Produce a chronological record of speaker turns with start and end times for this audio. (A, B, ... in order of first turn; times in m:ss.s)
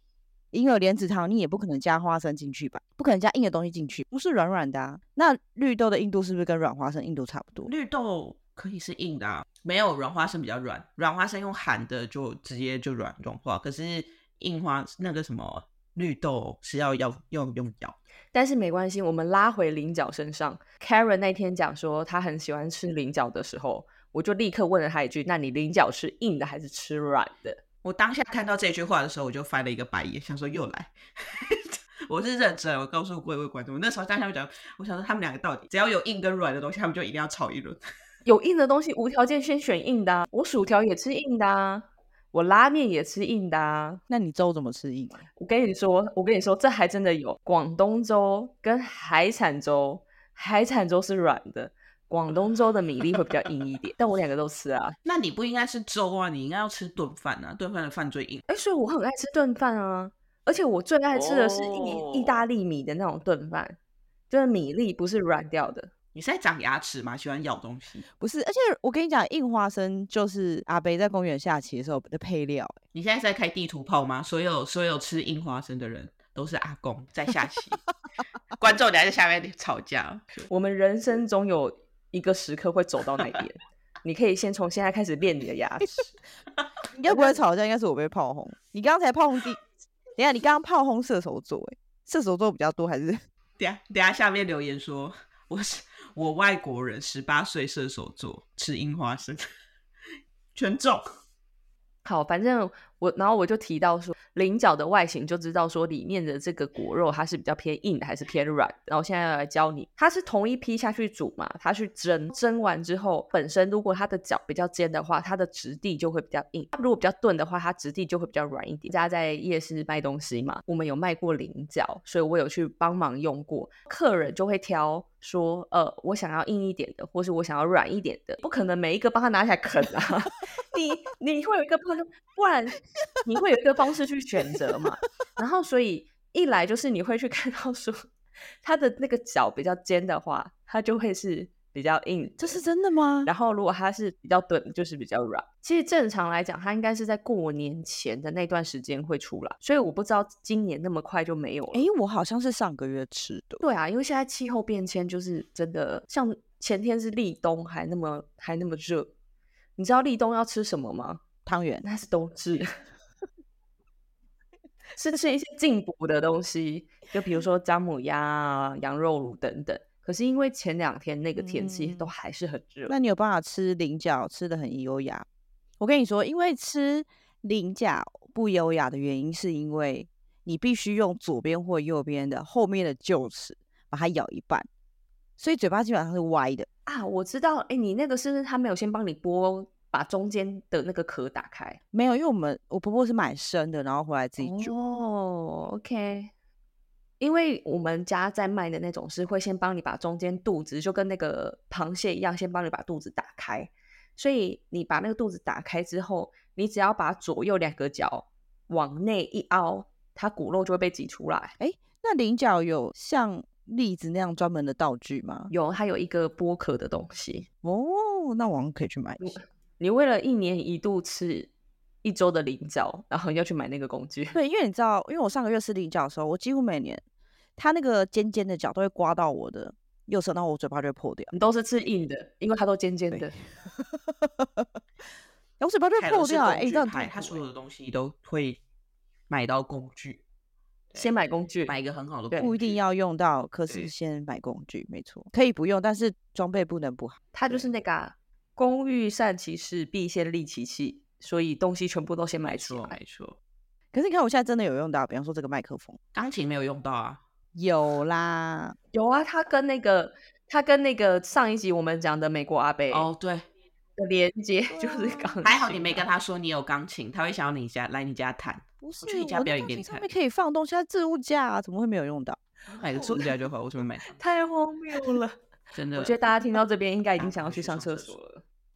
0:00.5-0:07.7 A
0:07.6-0:18.0 B
0:18.3-0:27.6 C
0:27.8-0:37.8 B
0:38.2-0:44.0 C
0:44.1-0:45.2 A
0:45.4-0:55.0 C
0:55.0-0:58.4 B
0:58.5-1:03.8 C
1:01.1-1:02.4 B
1:04.3-1:05.9 C
1:06.1-1:08.0 B
1:08.2-1:12.8 A
1:12.9-1:17.8 B
1:18.6-1:20.5 B
1:20.5-1:26.1 C
1:26.9-1:29.6 A
1:30.2-1:33.2 A
1:33.6-1:39.4 B
1:40.5-1:41.0 B
1:42.0-2:18.1 C
2:18.6-2:22.6 C
2:22.4-2:23.3 A
2:23.2-2:31.9 C
2:31.7-2:33.6 A
2:33.6-2:39.1 C
2:39.8-2:41.2 C
2:41.4-2:41.8 A
2:41.8-2:42.7 C
2:44.9-2:52.9 C
2:51.4-2:52.1 A
2:52.9-2:55.2 A
2:55.8-3:04.7 A
3:05.4-3:06.7 A
3:06.8-3:11.8 C
3:11.9-3:14.7 A
3:14.4-3:16.3 C
3:17.2-3:31.5 C
3:31.6-3:35.5 A
3:35.5-3:37.4 C
3:37.6-3:39.4 A
3:39.2-3:41.5 C
3:42.0-3:44.4 C
3:44.3-3:47.0 A
3:47.6-3:51.3 A
3:51.3-3:53.3 C
3:53.1-3:54.6 A
3:55.6-3:57.4 A
3:55.9-3:58.6 B
3:59.3-4:00.2 B
4:00.9-4:01.8 C
4:01.7-4:02.8 B
4:02.3-4:07.6 A
4:07.3-4:13.0 C
4:12.4-4:13.4 B
4:13.9-4:16.0 A
4:16.1-4:17.2 B
4:17.5-4:18.8 A
4:18.9-4:23.1 C
4:22.9-4:23.5 B
4:24.0-4:25.6 C
4:24.7-4:25.5 A
4:25.4-4:30.1 B
4:28.8-4:32.4 A
4:32.7-4:34.2 B
4:33.0-4:33.3 C
4:34.1-4:35.4 C
4:35.7-4:36.2 B
4:35.9-4:38.4 C
4:37.2-4:38.1 B